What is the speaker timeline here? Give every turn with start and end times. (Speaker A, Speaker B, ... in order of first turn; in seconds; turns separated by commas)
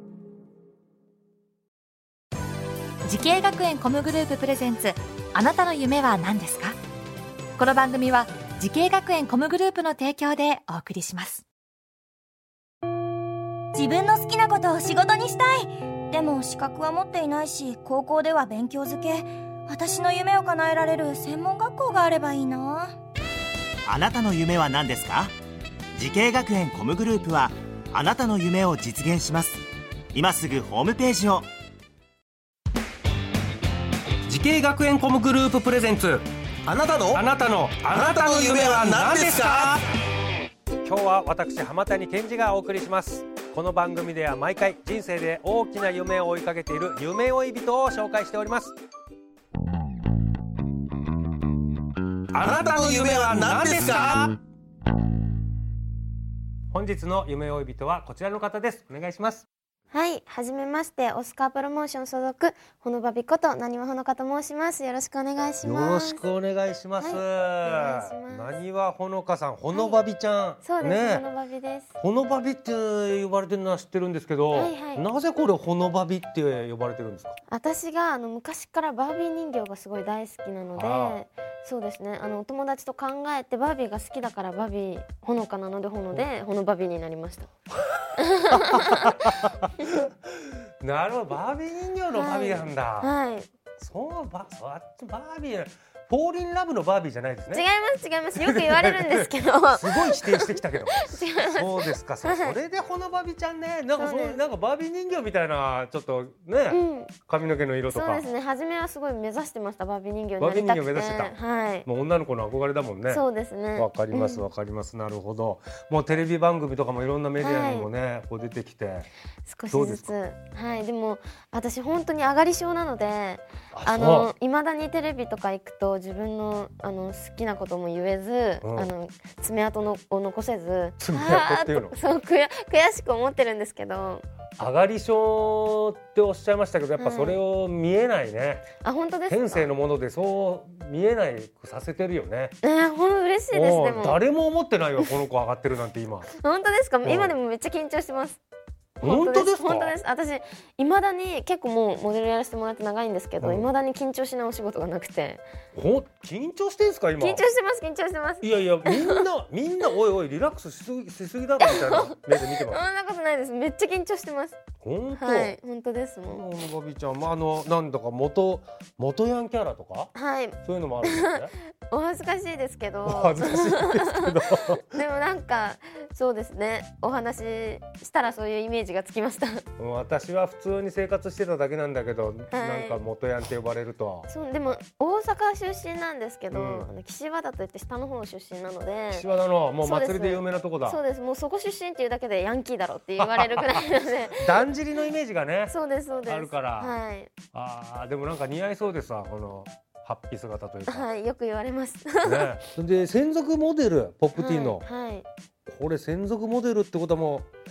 Speaker A: 3.0-6.8, Speaker A: 7.6-11.5, Speaker B: 13.7-23.0, Speaker C: 23.9-25.3, Speaker C: 25.9-31.5, Speaker D: 34.3-36.3, Speaker E: 36.7-37.1, Speaker D: 37.1-39.8, Speaker E: 38.0-39.8, Speaker D: 40.8-48.8, Speaker D: 52.3-54.3, Speaker E: 52.4-54.4, Speaker D: 56.7-59.5, Speaker F: 59.9-66.2, Speaker D: 65.6-71.3, Speaker F: 67.0-68.6, Speaker F: 69.7-70.0, Speaker F: 70.6-72.0, Speaker D: 72.0-77.4, Speaker F: 74.5-75.0, Speaker F: 77.5-87.5, Speaker D: 80.8-81.2, Speaker F: 88.2-89.4, Speaker D: 88.5-89.3, Speaker D: 90.8-93.1, Speaker F: 92.1-93.5, Speaker D: 93.8-97.7, Speaker F: 97.5-102.6, Speaker D: 98.4-108.3, Speaker F: 104.0-104.4, Speaker F: 106.7-107.1, Speaker F: 107.9-111.9, Speaker D: 110.4-111.3, Speaker D: 111.9-113.2, Speaker F: 113.1-114.5, Speaker D: 113.8-119.1, Speaker F: 117.4-117.9, Speaker F: 119.5-134.2, Speaker D: 119.7-120.1, Speaker D: 123.7-124.3, Speaker D: 128.6-128.9, Speaker D: 131.0-132.0, Speaker D: 134.6-138.7, Speaker F: 137.0-137.4, Speaker F: 138.8-139.7, Speaker D: 139.3-142.6, Speaker F: 142.6-144.2, Speaker D: 143.5-146.3, Speaker F: 146.4-148.4, Speaker D: 147.0-147.3, Speaker D: 149.0-150.0, Speaker F: 149.0-155.4, Speaker D: 153.4-153.7, Speaker D: 155.8-157.5, Speaker F: 157.2-159.2, Speaker D: 158.4-162.8, Speaker F: 161.6-164.6, Speaker D: 164.8-165.6, Speaker F: 165.2-166.4, Speaker D: 166.3-171.5, Speaker F: 170.2-179.7, Speaker D: 173.1-175.0, Speaker D: 179.8-184.3, Speaker F: 182.5-183.0, Speaker F: 184.3-189.3, Speaker D: 186.5-186.9, Speaker D: 189.1-191.0, Speaker F: 189.8-194.7, Speaker D: 193.2-195.8, Speaker F: 195.7-197.3, Speaker D: 196.3-197.0, Speaker D: 197.5-201.1, Speaker F: 200.9-202.5, Speaker D: 202.2-204.8, Speaker F: 204.3-205.3, Speaker D: 205.7-207.5